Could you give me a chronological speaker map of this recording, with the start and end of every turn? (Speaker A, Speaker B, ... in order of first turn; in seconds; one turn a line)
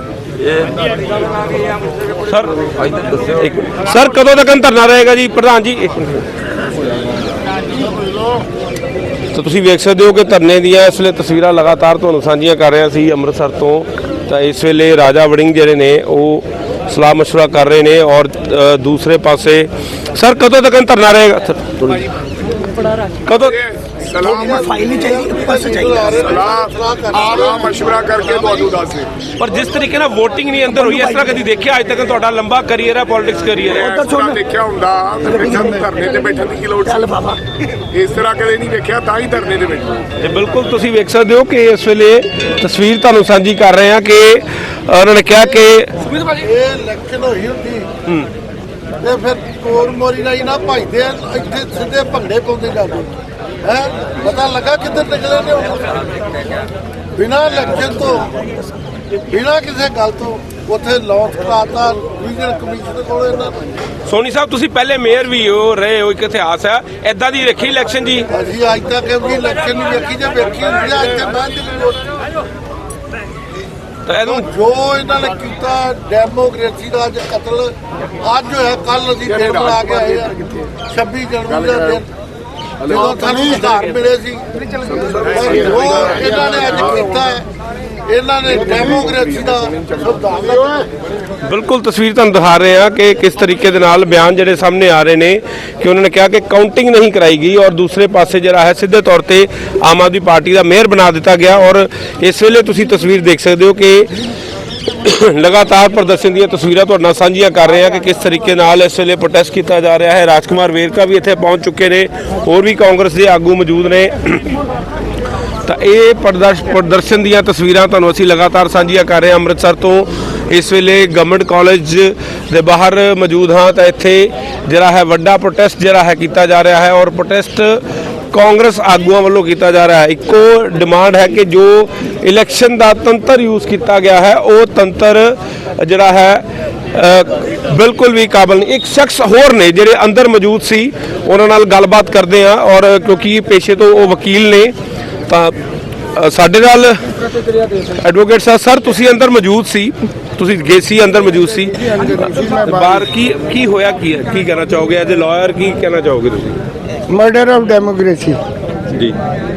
Speaker A: 3.2-6.2
Speaker A: 9.3-22.1
Speaker A: 23.3-23.6
Speaker B: 23.4-25.3
Speaker C: 24.2-26.3
Speaker D: 24.5-27.8
Speaker B: 26.1-29.1
Speaker A: 29.4-33.9
Speaker C: 30.8-31.2
Speaker B: 33.7-37.1
Speaker C: 33.8-34.4
Speaker C: 35.3-36.3
Speaker C: 36.8-37.4
Speaker B: 37.9-40.0
Speaker A: 40.2-46.0
Speaker D: 46.3-47.9
Speaker D: 49.0-53.1
Speaker D: 53.6-56.0
Speaker D: 57.2-58.3
Speaker D: 59.3-63.6
Speaker A: 64.1-68.3
Speaker D: 68.3-72.1
Speaker A: 74.1-74.5
Speaker D: 74.3-82.1
Speaker B: 79.5-79.9
Speaker D: 82.9-84.4
Speaker B: 85.0-87.0
Speaker D: 85.3-87.5
Speaker D: 88.1-90.9
Speaker A: 91.5-104.1
Speaker A: 105.0-114.4
Speaker A: 115.7-144.7
Speaker A: 145.3-145.6
Speaker A: 146.1-156.6
Speaker E: 152.2-153.0
Speaker E: 157.1-158.4